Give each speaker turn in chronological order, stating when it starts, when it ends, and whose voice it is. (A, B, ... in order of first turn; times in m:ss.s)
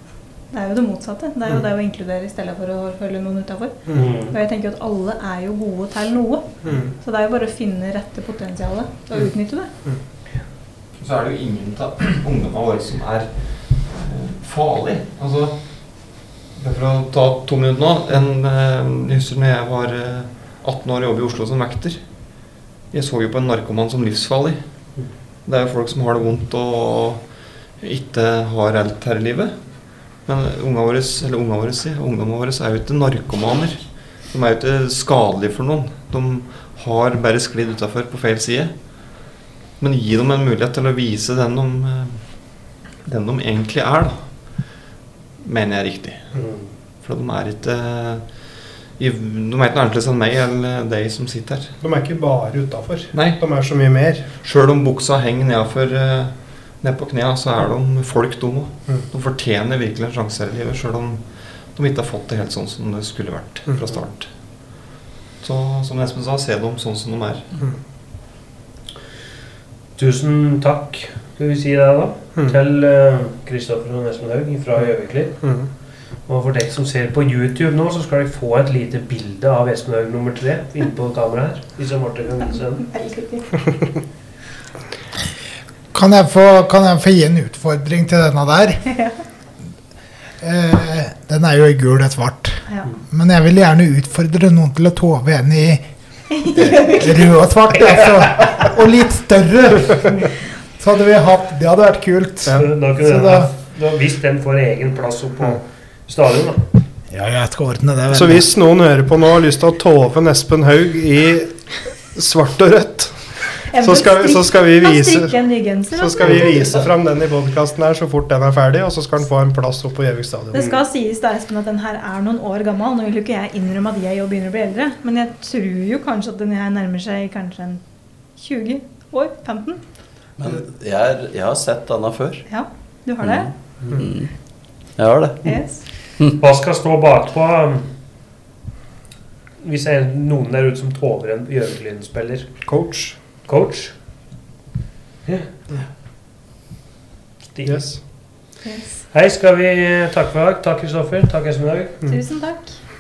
0:00.5-0:09.7 A
0:03.9-0:04.1 B
0:03.9-0:04.4 C
0:06.6-0:06.9 B
0:11.0-0:44.8 D
0:45.4-0:51.8 D
0:46.3-0:46.8 C
0:51.8-0:54.3 B
0:53.1-0:53.4 D
0:54.4-1:04.9 D
1:05.4-1:07.6 D
1:10.0-1:15.6 C
1:15.4-1:15.7 B
1:16.3-1:22.9 C
1:22.5-1:23.7 A
1:25.9-1:28.9 E
1:30.4-1:35.9 E
1:32.7-1:33.0 A
1:36.4-1:37.0 A
1:36.4-1:43.5 E
1:42.5-1:46.6 C
1:47.1-1:48.5 E
1:48.1-1:55.4 B
1:53.7-1:56.7 A
1:55.9-2:00.6 B
2:00.5-2:07.8 A
2:00.6-2:00.8 C
2:08.3-2:09.8 A
2:10.4-2:12.4 F
2:12.5-2:13.5 A
2:13.2-2:14.3 F
2:15.0-2:15.6 F
2:15.4-2:15.9 A
2:16.3-2:17.9 C
2:19.6-2:22.7 C
2:22.6-2:23.2 B
2:23.4-2:24.0 C
2:25.2-2:25.5 C
2:27.5-2:28.0 C
2:27.6-2:28.0 B
2:28.6-2:29.0 A
2:29.1-2:32.0 C
2:32.0-2:32.8 A